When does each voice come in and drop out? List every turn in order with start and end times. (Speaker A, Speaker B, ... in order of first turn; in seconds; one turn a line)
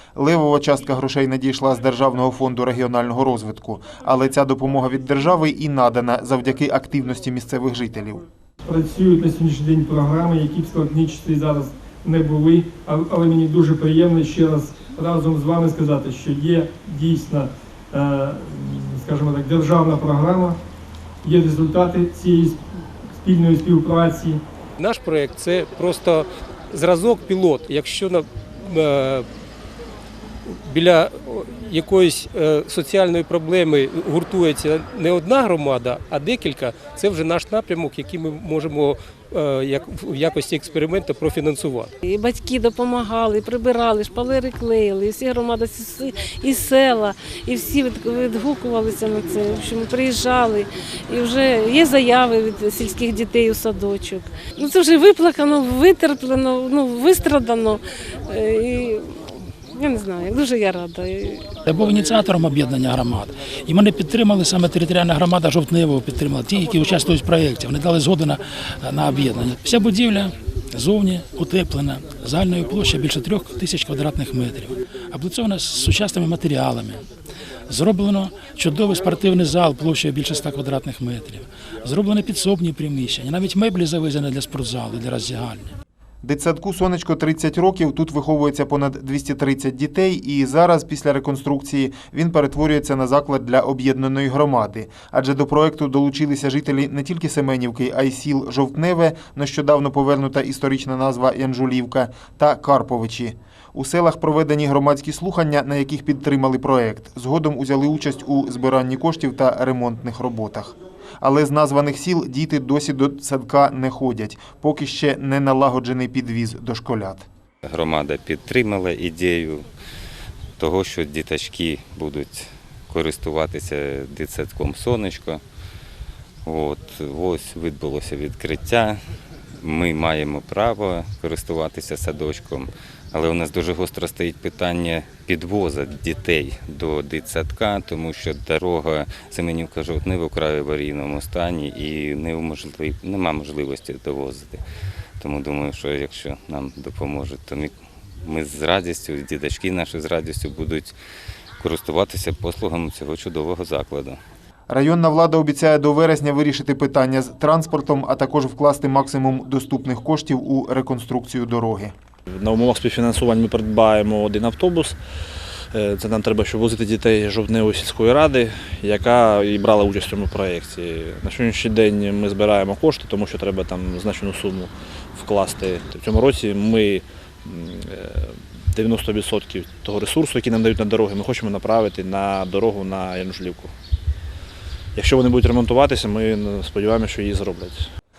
Speaker A: 0.2-8.2
Speaker B: 8.6-20.6
Speaker B: 21.2-22.6
Speaker B: 23.2-24.4
Speaker C: 24.8-29.2
Speaker C: 30.7-41.9
Speaker D: 42.0-57.8
Speaker D: 58.3-59.2
Speaker D: 59.7-61.5
Speaker E: 61.7-77.0
Speaker E: 77.7-85.7
Speaker A: 86.2-117.3
Speaker F: 117.6-119.7
Speaker F: 120.6-125.4
Speaker F: 126.5-129.0
Speaker F: 129.6-144.6
Speaker F: 145.2-147.7
Speaker F: 148.2-150.9
Speaker F: 151.6-154.2
Speaker A: 154.7-161.9
Speaker G: 162.3-164.9
Speaker G: 165.7-183.7
Speaker G: 185.0-187.9